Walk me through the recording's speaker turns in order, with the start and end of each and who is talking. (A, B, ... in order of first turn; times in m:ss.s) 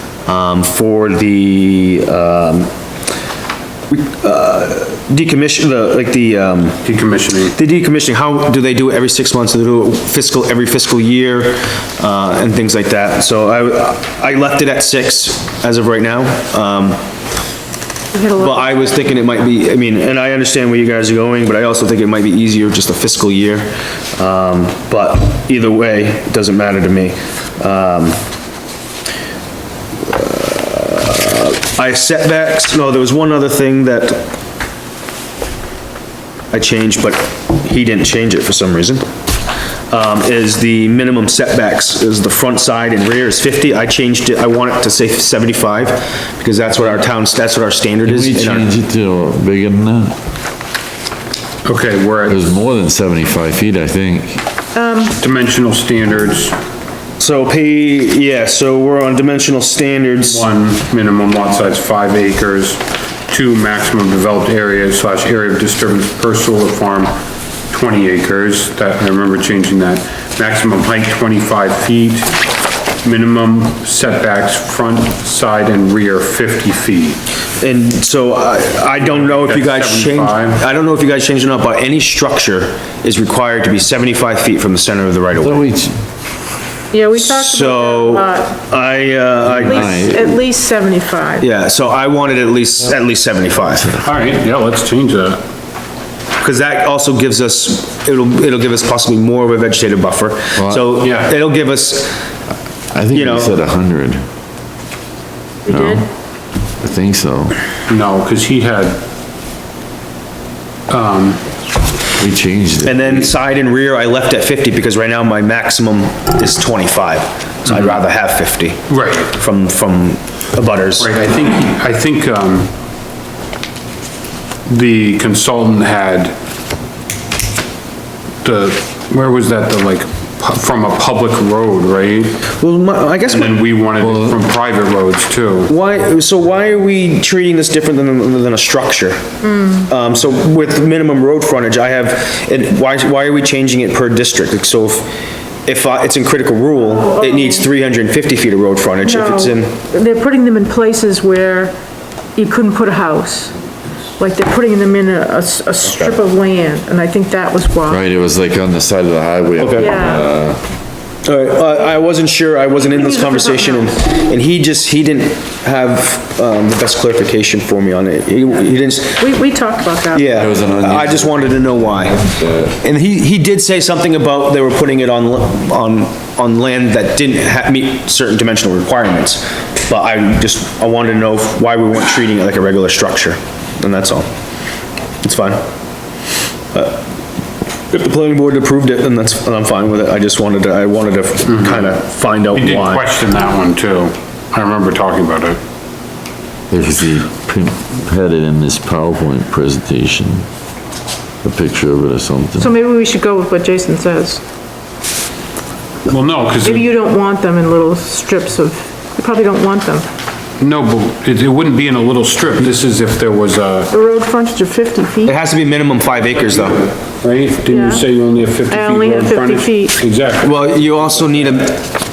0:00.2-0:02.7 A
0:03.9-0:06.8 A
0:06.8-0:07.6 B
0:07.5-0:17.0 A
0:18.1-0:18.6 C
0:18.4-0:28.2 A
0:30.0-0:34.3 A
0:36.5-0:39.1 A
0:39.9-0:48.7 A
0:48.0-0:50.1 D
0:51.6-0:52.5 B
0:52.3-0:54.4 D
0:54.7-0:55.2 C
0:55.2-0:56.6 B
0:57.2-1:00.4 A
1:00.3-1:07.2 B
1:07.7-1:12.3 B
1:13.0-1:17.2 B
1:17.6-1:25.6 A
1:19.0-1:20.6 B
1:25.4-1:26.0 D
1:26.9-1:28.5 C
1:27.1-1:30.2 A
1:29.4-1:30.2 D
1:29.7-1:31.4 C
1:31.4-1:34.0 A
1:34.0-1:35.4 B
1:36.4-1:42.2 A
1:40.6-1:40.9 D
1:41.0-1:41.3 B
1:42.9-1:44.2 D
1:43.1-1:43.6 A
1:45.7-1:46.0 C
1:45.7-1:46.1 D
1:46.8-1:47.6 D
1:47.9-1:49.0 B
1:50.9-1:51.4 B
1:52.2-1:53.3 D
1:52.8-2:01.1 A
1:57.7-1:58.0 B
1:58.9-1:59.3 B
2:01.0-2:02.7 B
2:04.7-2:06.4 B
2:08.4-2:12.4 B
2:12.6-2:13.6 A
2:13.2-2:15.7 B
2:14.0-2:14.4 D
2:15.7-2:19.2 A
2:19.4-2:19.8 C
2:19.9-2:25.1 A
2:25.6-2:29.8 A
2:27.0-2:27.6 C
2:29.0-2:31.7 C
2:32.3-2:33.6 C
2:34.2-2:38.0 C
2:37.9-2:40.6 D
2:39.6-2:39.9 A
2:39.8-2:40.2 C
2:41.2-2:49.3 A
2:43.0-2:43.9 C
2:49.2-2:50.3 C
2:50.1-2:52.2 A
2:50.3-2:52.8 D
2:52.8-3:04.3 A
3:05.2-3:05.6 A
3:06.7-3:07.0 A
3:07.9-3:13.0 A
3:11.4-3:12.0 B
3:12.5-3:15.6 B
3:16.7-3:20.5 D
3:21.4-3:22.7 D
3:22.6-3:24.4 C
3:26.0-3:26.9 B
3:26.6-3:30.1 C
3:30.6-3:33.9 B
3:33.9-3:35.3 C
3:35.2-3:36.9 A
3:37.2-3:40.6 B
3:37.7-3:38.0 C
3:38.7-3:40.0 C
3:40.4-3:41.8 A